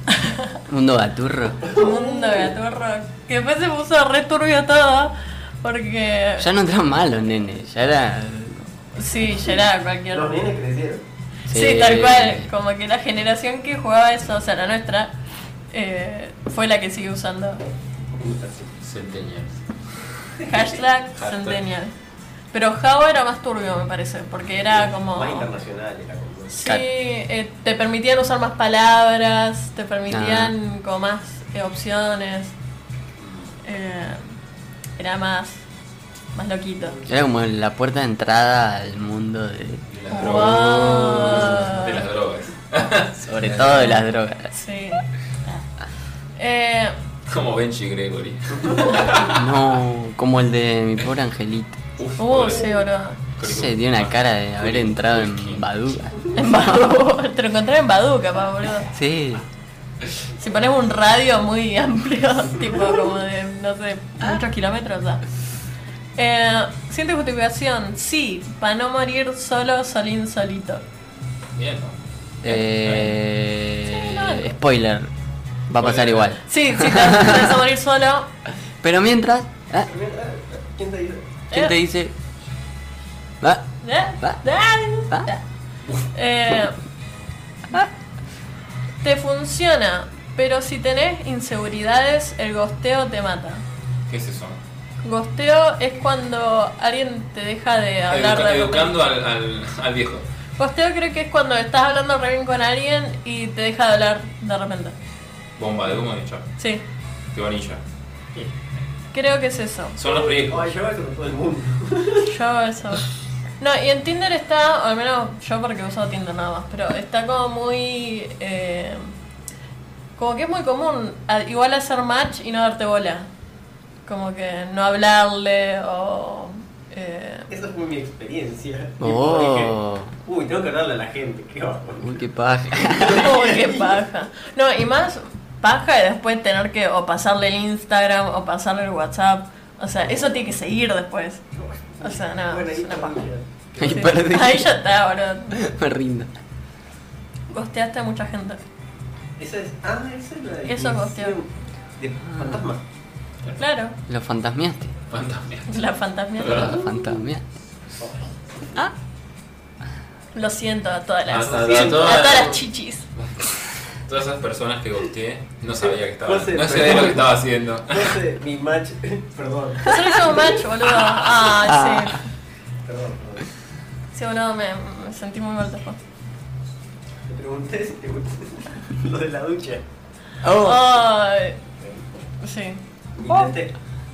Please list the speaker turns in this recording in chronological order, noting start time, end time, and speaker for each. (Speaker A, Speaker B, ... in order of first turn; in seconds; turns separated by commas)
Speaker A: 0.2-0.6, Speaker B: 0.7-1.6, Speaker C: 1.6-2.5, Speaker A: 1.7-6.5, Speaker B: 6.4-8.7, Speaker A: 8.9-10.4, Speaker C: 10.1-11.0, Speaker B: 11.5-12.5, Speaker A: 11.5-15.2, Speaker A: 15.7-17.6, Speaker C: 18.1-18.7, Speaker D: 18.8-19.6, Speaker A: 20.4-21.9, Speaker D: 21.2-21.6, Speaker A: 22.5-25.5, Speaker C: 24.6-26.6, Speaker A: 26.5-32.5, Speaker B: 30.1-30.5, Speaker C: 33.2-33.5, Speaker A: 33.6-34.2, Speaker A: 35.0-35.6, Speaker A: 36.3-37.0, Speaker B: 37.0-41.8, Speaker D: 39.9-44.0, Speaker A: 40.1-42.0, Speaker B: 43.2-44.5, Speaker A: 44.5-45.6, Speaker A: 46.4-46.9, Speaker D: 47.3-49.4, Speaker B: 49.3-51.8, Speaker D: 52.0-52.7, Speaker A: 52.2-53.2, Speaker D: 53.4-55.6, Speaker B: 53.4-56.5, Speaker A: 56.4-58.9, Speaker B: 58.9-59.4, Speaker A: 60.4-65.2, Speaker A: 66.2-70.8, Speaker D: 71.5-73.2, Speaker B: 72.4-75.1, Speaker A: 73.8-74.5, Speaker B: 75.7-77.6, Speaker D: 75.8-76.3, Speaker A: 76.4-78.3, Speaker B: 78.8-79.9, Speaker C: 79.9-81.4, Speaker B: 81.5-82.1, Speaker B: 83.4-83.7, Speaker A: 83.8-85.4, Speaker A: 86.1-86.8, Speaker A: 89.0-93.6, Speaker D: 94.1-94.6, Speaker A: 95.0-98.9, Speaker D: 98.1-100.2, Speaker A: 100.6-104.9, Speaker D: 105.6-106.5, Speaker A: 106.6-106.8, Speaker D: 107.3-107.8, Speaker A: 109.1-110.0, Speaker D: 110.0-110.7, Speaker C: 110.0-112.3, Speaker A: 112.2-113.1, Speaker A: 113.6-119.1, Speaker A: 120.2-123.3, Speaker A: 124.0-127.5, Speaker C: 127.5-132.1, Speaker B: 129.0-130.1, Speaker B: 132.0-133.4, Speaker C: 132.8-134.0, Speaker A: 133.1-141.4, Speaker C: 140.0-140.5, Speaker C: 141.5-144.1, Speaker A: 142.0-143.2, Speaker B: 143.8-144.7, Speaker A: 143.8-145.6, Speaker B: 145.5-146.3, Speaker A: 147.5-148.6, Speaker C: 149.4-152.8, Speaker A: 150.7-151.4, Speaker B: 152.4-152.6, Speaker A: 153.6-154.0, Speaker B: 154.1-154.9, Speaker D: 155.1-155.8, Speaker A: 155.7-156.8, Speaker B: 156.4-157.4, Speaker D: 156.4-156.7, Speaker C: 158.0-158.3, Speaker A: 160.3-163.1, Speaker D: 161.3-162.6, Speaker C: 161.4-162.6, Speaker D: 163.2-163.5, Speaker D: 164.1-168.2, Speaker C: 165.8-170.6, Speaker A: 169.8-172.3, Speaker B: 171.5-172.2, Speaker C: 172.8-173.5, Speaker A: 174.1-176.0, Speaker C: 177.3-179.8, Speaker B: 180.4-181.0, Speaker A: 180.6-181.6, Speaker A: 182.4-182.8, Speaker C: 183.2-183.7